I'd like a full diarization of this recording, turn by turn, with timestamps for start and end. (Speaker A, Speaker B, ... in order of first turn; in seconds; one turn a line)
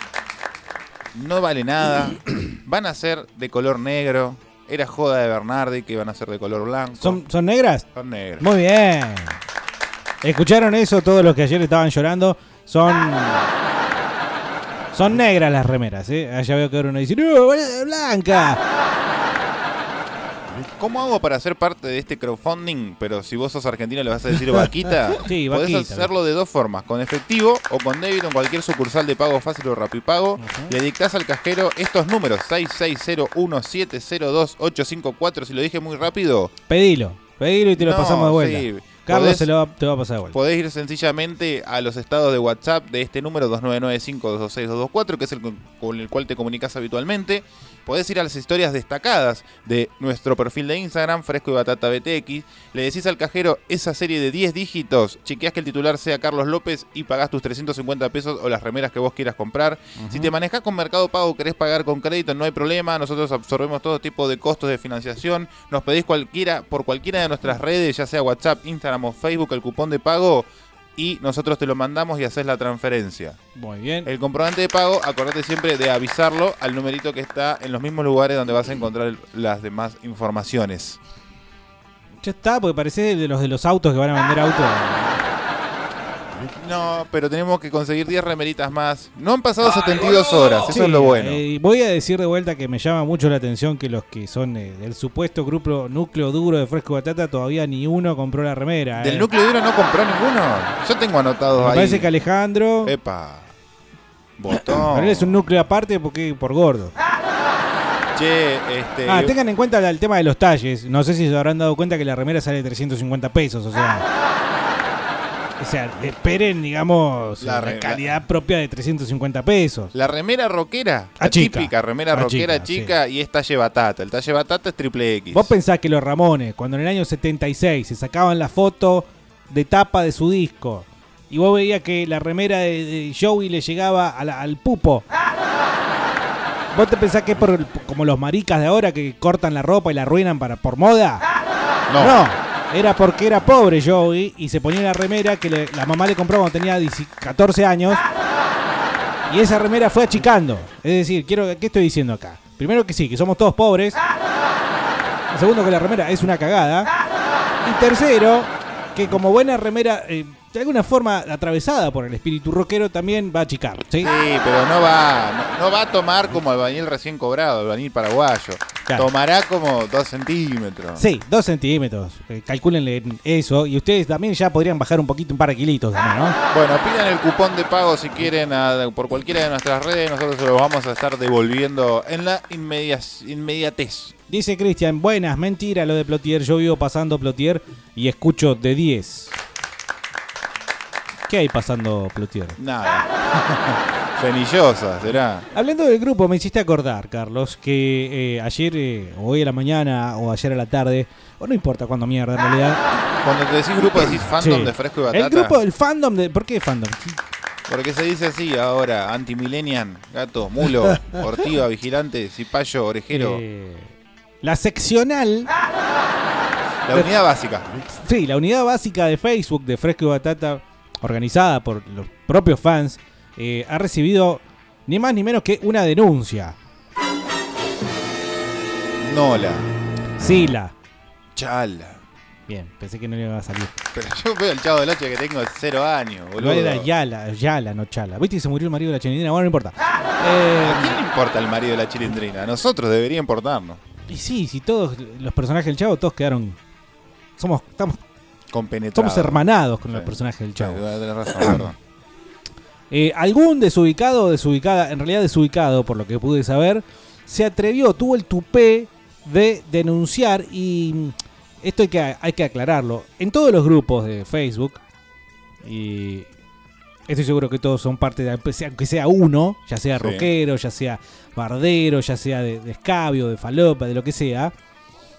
Speaker A: 1.1-7.2
Speaker B: 7.0-7.9
Speaker A: 7.9-8.4
Speaker B: 8.4-9.4
Speaker B: 10.2-13.5
Speaker B: 14.9-18.6
Speaker A: 20.8-36.5
Speaker B: 25.3-26.1
Speaker B: 30.4-30.8
Speaker B: 36.7-40.4
Speaker A: 37.8-39.5
Speaker A: 40.3-73.4
Speaker B: 60.0-60.3
Speaker B: 73.6-74.1
Speaker A: 74.0-81.0
Speaker B: 82.2-85.2
Speaker A: 86.6-91.4
Speaker B: 90.7-99.3
Speaker A: 99.0-102.1
Speaker B: 101.6-102.9
Speaker A: 102.8-103.5
Speaker A: 104.4-105.3
Speaker B: 104.9-106.9
Speaker A: 108.2-109.3
Speaker B: 109.1-114.0
Speaker B: 115.6-119.9
Speaker A: 117.4-118.2
Speaker A: 119.9-125.5
Speaker B: 121.2-123.0
Speaker B: 125.3-135.1
Speaker B: 136.7-141.2
Speaker A: 141.9-142.2
Speaker B: 142.0-148.0
Speaker B: 149.3-154.0
Speaker B: 155.3-156.9
Speaker B: 157.6-164.1
Speaker A: 164.0-171.1
Speaker B: 171.0-176.4
Speaker A: 176.5-184.2
Speaker B: 184.3-189.4
Speaker B: 191.3-192.6
Speaker A: 192.6-195.5
Speaker B: 195.5-202.8
Speaker A: 203.2-205.6
Speaker B: 204.1-207.2
Speaker A: 207.7-213.4
Speaker B: 213.1-215.5
Speaker A: 216.9-217.7
Speaker B: 217.9-226.6
Speaker A: 229.0-229.7
Speaker B: 230.2-230.7
Speaker A: 231.3-232.0
Speaker B: 232.5-233.8
Speaker A: 233.9-236.9
Speaker B: 236.4-241.0
Speaker A: 240.6-243.8
Speaker B: 244.1-246.6
Speaker B: 247.4-248.0
Speaker A: 248.5-251.8
Speaker B: 248.9-250.8
Speaker B: 252.9-264.8
Speaker B: 265.6-266.3
Speaker B: 267.1-274.5
Speaker A: 270.0-270.3